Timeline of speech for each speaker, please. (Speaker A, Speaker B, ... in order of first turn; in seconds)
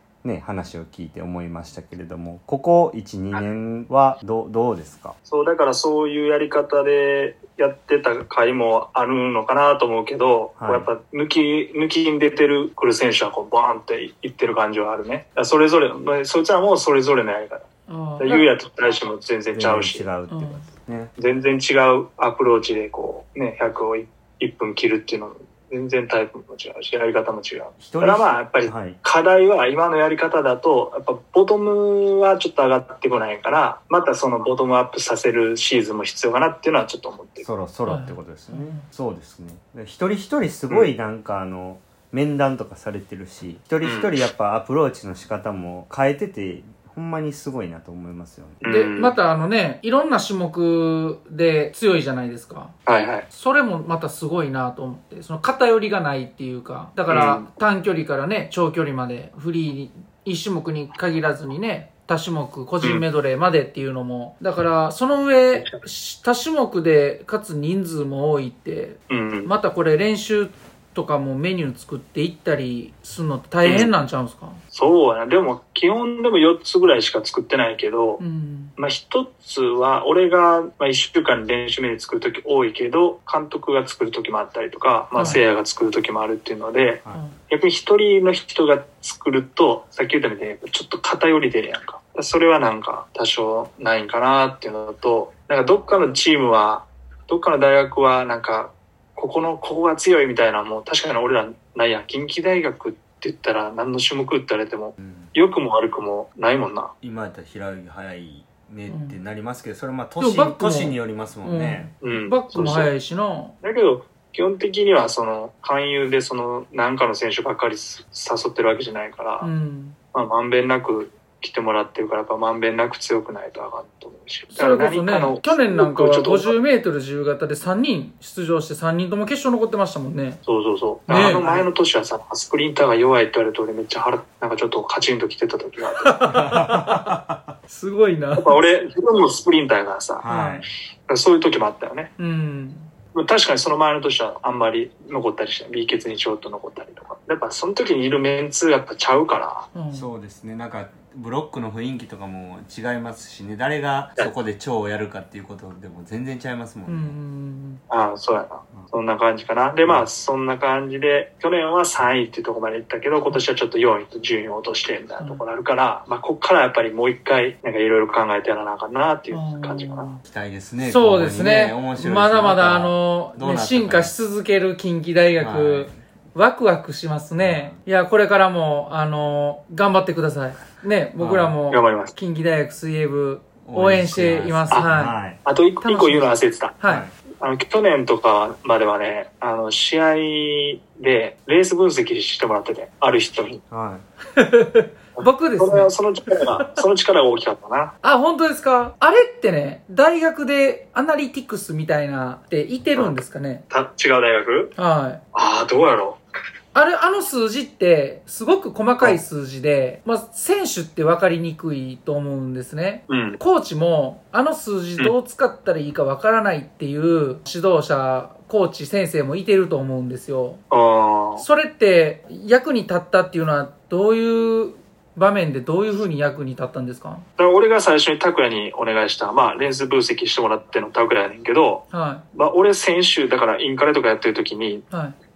Speaker A: 0.2-5.2, 10.6-10.9, 19.5-21.1, 27.8-29.0, 37.4-48.6, 105.0-105.3, 107.0-111.9, 136.3-137.5, 140.2-140.7, 149.9-157.2, 170.2-174.1, 175.4-176.0, 177.4-177.8, 181.2-181.6, 183.6-185.4, 186.8-187.1, 193.7-194.0
Speaker B: 5.2-17.7, 18.2-20.1, 21.2-37.5, 43.8-44.2, 48.6-49.1, 52.9-53.2, 57.1-57.5, 69.1-69.5, 73.6-73.9, 74.7-78.2, 78.8-106.9, 112.0-112.9, 113.6-119.5, 120.1-126.5, 130.4-136.1, 138.3-140.2, 141.1-142.1, 143.1-149.7, 157.9-170.1, 181.7-182.1, 185.4-186.8, 187.4-193.6, 195.2-197.9, 202.9-204.7, 205.3-206.2, 213.1-213.4, 220.7-221.4, 227.4-234.9
Speaker C: 17.9-18.5, 20.3-20.7, 37.9-38.9, 48.7-52.7, 53.3-74.6, 78.2-78.7, 85.2-85.4, 108.9-109.2, 110.2-113.5, 119.4-120.0, 124.5-130.4, 131.1-131.6, 136.0-137.1, 137.7-138.6, 140.3-140.6, 142.2-142.9, 149.7-150.1, 156.8-157.8, 169.3-170.2, 170.8-185.2, 185.8-187.1, 194.3-196.8, 198.0-203.6, 204.8-205.2, 206.7-220.6, 221.4-227.2, 231.9-232.2